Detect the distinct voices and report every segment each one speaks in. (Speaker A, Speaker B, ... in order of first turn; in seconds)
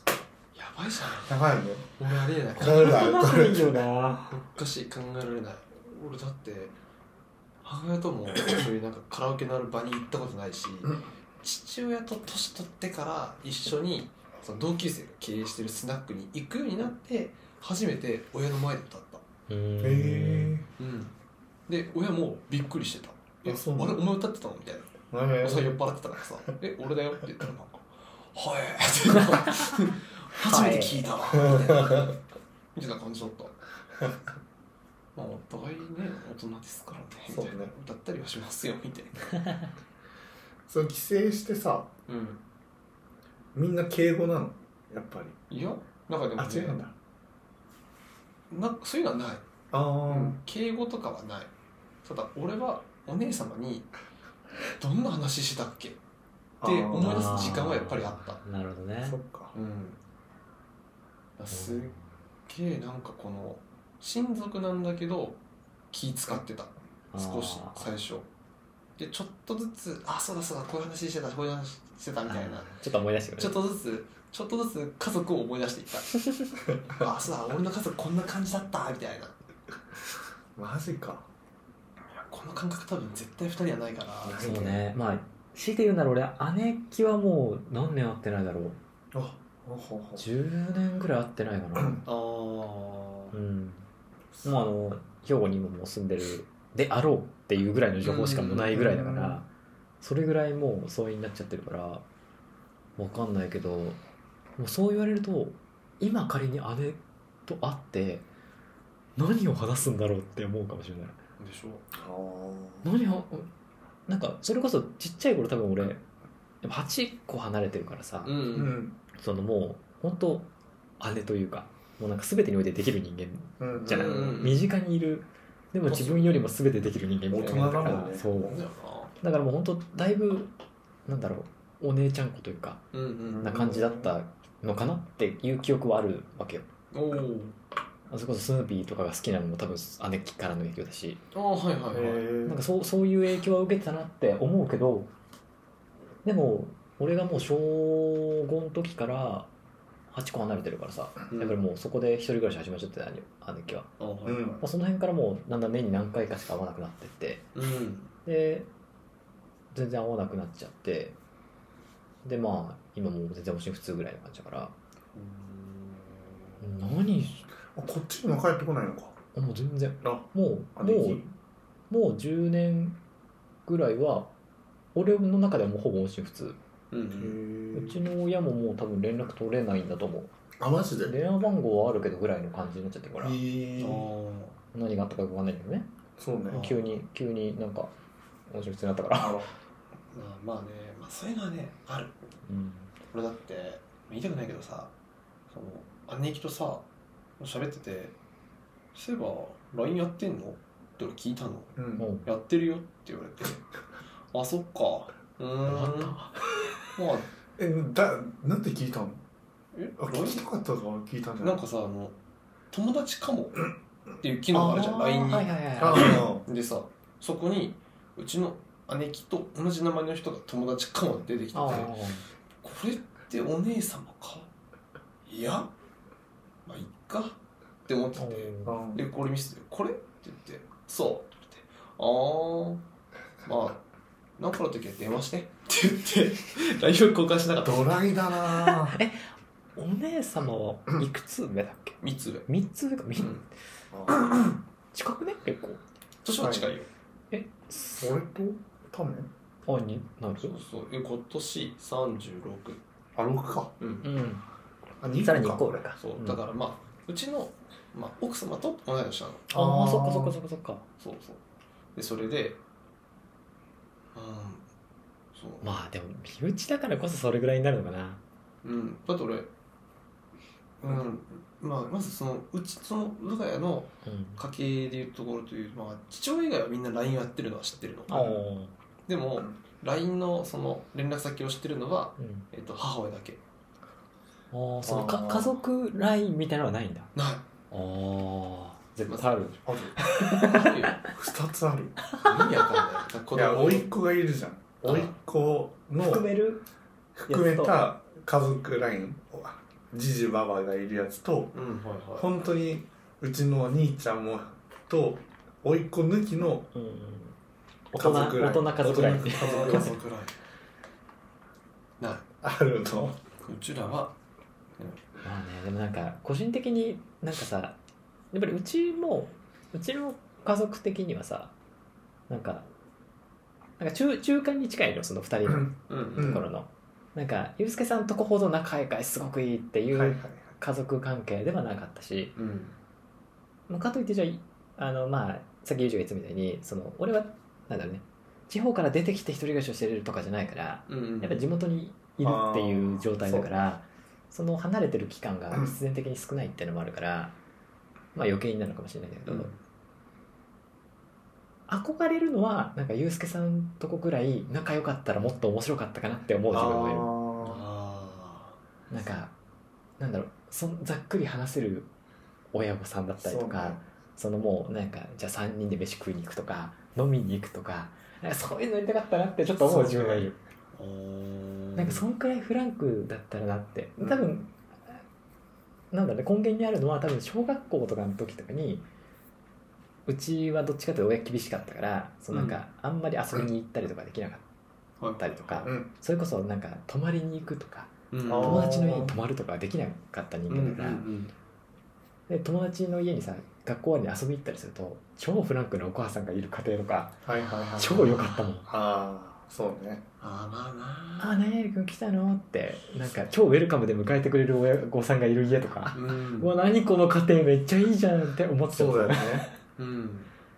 Speaker A: 0.5-1.4, 2.0-3.0, 4.3-6.7, 7.6-19.2, 20.8-21.1, 21.7-32.1, 32.7-33.5, 35.1-39.3, 42.1-42.4, 45.5-46.8, 48.5-49.5, 50.0-51.5, 52.0-53.9, 54.8-56.0, 56.6-58.4, 59.5-60.0, 61.4-61.9, 62.5-65.4, 65.9-68.3, 69.0-72.8, 73.4-76.1, 76.9-79.3, 82.1-84.4, 92.0-93.3, 98.0-98.8, 111.4-111.9, 118.2-118.8, 123.9-124.6, 125.8-126.5, 127.4-129.1, 132.9-133.5, 136.9-137.5, 141.3-142.2, 151.3-151.6, 154.0-154.6, 157.5-158.1, 165.1-166.6, 176.9-177.4, 183.8-184.6, 186.5-186.8, 190.1-192.2, 193.1-194.9, 195.5-196.8, 197.4-198.1, 198.9-203.6, 204.3-206.2, 206.9-207.3, 209.7-210.4, 211.4-212.1, 212.7-221.9, 222.6-224.5, 225.3-225.7, 226.7-232.8, 233.4-233.8, 234.4-238.1, 242.0-242.4, 243.2-243.4, 246.2-246.9, 250.4-252.8, 253.8-254.1, 256.0-259.5, 261.0-261.4, 261.9-262.6, 264.1-264.6, 265.3-265.7, 268.6-269.5, 270.8-278.1, 279.1-283.4, 287.1-287.4, 290.3-291.0, 292.2-293.9, 294.9-295.1, 301.5-302.3, 309.2-310.4, 312.0-312.2, 313.4-314.1, 325.9-326.4, 332.4-332.8, 340.9-341.4, 349.2-349.6, 357.4-358.6, 370.8-372.1, 382.3-382.6, 385.0-385.7, 388.1-388.7, 390.5-391.3, 397.3-398.5, 400.2-401.3, 405.9-406.5, 409.8-410.3
Speaker B: 1.2-1.9, 2.5-3.9, 19.8-20.6, 23.4-24.0, 25.1-25.8, 31.4-32.1, 37.3-37.7, 40.7-41.9, 43.5-45.4, 46.4-46.9, 49.7-50.4, 56.6-57.5, 59.0-59.5, 80.5-81.3, 84.2-84.8, 89.1-90.2, 98.7-99.4, 111.9-112.9, 118.5-119.0, 123.6-124.4, 127.3-128.6, 133.3-134.1, 141.9-142.6, 154.2-154.6, 167.7-169.2, 170.8-171.2, 177.2-178.0, 180.6-181.2, 183.2-184.1, 186.2-186.7, 189.1-189.5, 201.8-202.1, 207.6-209.2, 210.0-211.6, 215.8-216.4, 228.6-229.0, 237.6-239.0, 243.9-244.2, 246.4-246.7, 248.0-249.3, 253.1-253.7, 255.0-255.8, 259.5-260.4, 278.1-278.4, 284.8-285.5, 289.6-290.5, 291.1-292.1, 293.3-296.2, 297.2-301.5, 302.2-306.7, 307.9-310.0, 312.4-313.2, 325.5-326.5, 329.9-330.5, 342.2-343.5, 356.5-357.6, 363.2-363.8, 369.6-370.3, 374.0-374.4, 388.2-389.1, 397.2-398.1, 398.7-400.0, 408.7-409.5
Speaker C: 2.6-4.3, 19.5-20.6, 30.4-31.1, 57.0-59.2, 61.5-62.0, 67.1-67.8, 72.3-73.6, 84.4-88.8, 90.2-92.0, 93.3-93.8, 94.4-99.5, 100.0-102.0, 103.0-104.0, 104.6-108.2, 109.2-111.2, 112.8-113.5, 114.1-116.0, 116.6-118.4, 119.1-128.6, 129.2-130.5, 131.1-136.7, 138.1-141.2, 142.4-145.1, 146.2-149.5, 150.1-153.9, 154.6-157.5, 158.2-158.7, 159.7-161.2, 162.2-164.7, 166.6-167.4, 169.3-171.3, 171.9-173.0, 173.7-174.3, 174.9-176.6, 177.7-180.3, 181.1-183.4, 184.7-185.9, 186.5-187.9, 188.5-189.5, 192.5-192.9, 202.0-202.3, 205.7-206.2, 214.5-216.3, 221.5-222.2, 228.2-228.8, 238.5-243.4, 244.9-245.8, 247.3-248.1, 249.7-250.6, 254.0-254.4, 255.2-256.4, 259.5-260.8, 265.6-268.2, 274.0-274.4, 278.1-278.7, 282.2-282.5, 284.5-287.1, 287.7-290.8, 292.2-292.8, 296.0-296.6, 297.3-297.9, 306.7-307.3, 307.9-310.0, 315.2-317.8, 318.3-321.5, 322.3-322.6, 323.8-332.3, 333.7-347.4, 348.1-349.5, 351.7-357.1, 358.9-359.3, 360.0-361.9, 362.5-370.4, 371.8-374.9, 375.9-378.9, 380.1-384.4, 385.2-391.0, 392.3-397.2, 397.8-398.7, 401.2-409.5